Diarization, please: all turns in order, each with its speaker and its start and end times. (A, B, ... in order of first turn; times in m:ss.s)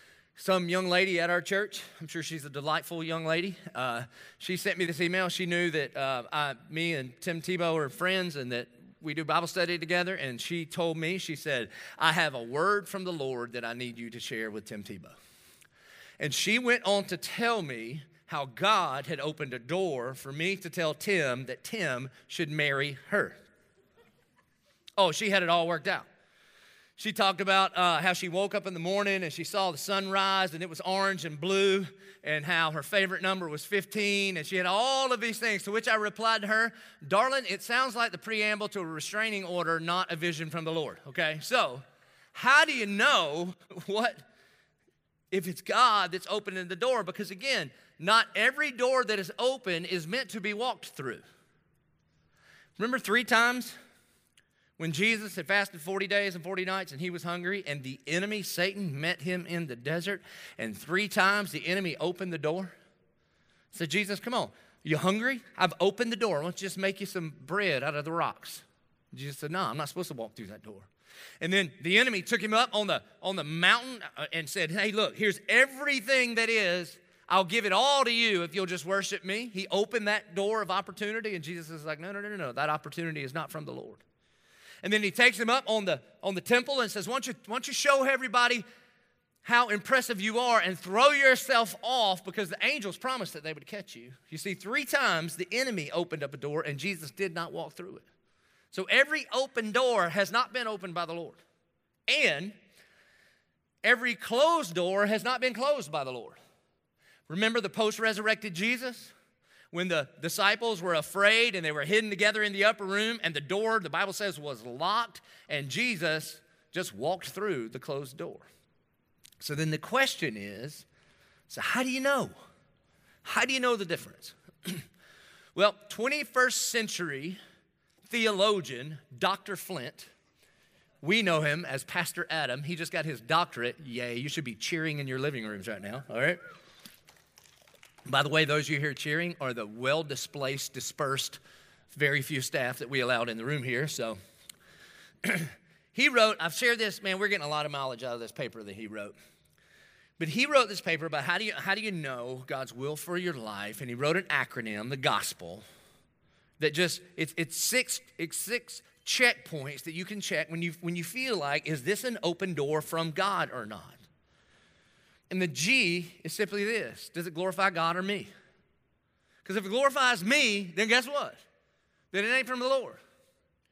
0:00.4-0:15.2 A
0:16.2-0:23.4 A
0:25.0-0:26.1 A
0:27.0-0:44.2 A
0:45.3-0:51.2 A
0:52.8-0:53.8 A
0:54.8-1:02.7 A
1:03.7-1:10.9 A
1:11.4-1:24.0 A
1:24.8-1:28.6 A
1:29.4-1:38.1 A
1:38.7-1:41.4 A
1:42.1-1:42.6 A
1:43.8-1:46.4 A
1:47.3-1:49.1 A
1:49.7-1:58.5 A
1:59.4-2:00.9 A
2:01.5-2:02.3 A
2:03.2-2:04.8 A
2:05.6-2:07.4 A
2:08.1-2:10.1 A
2:11.0-2:16.4 A
2:18.1-2:21.4 A
2:21.9-2:24.2 A
2:25.2-2:29.2 A
2:30.2-2:35.6 A
2:36.6-2:44.0 A
2:45.3-2:48.3 A
2:49.4-2:51.4 A
2:52.1-2:53.0 A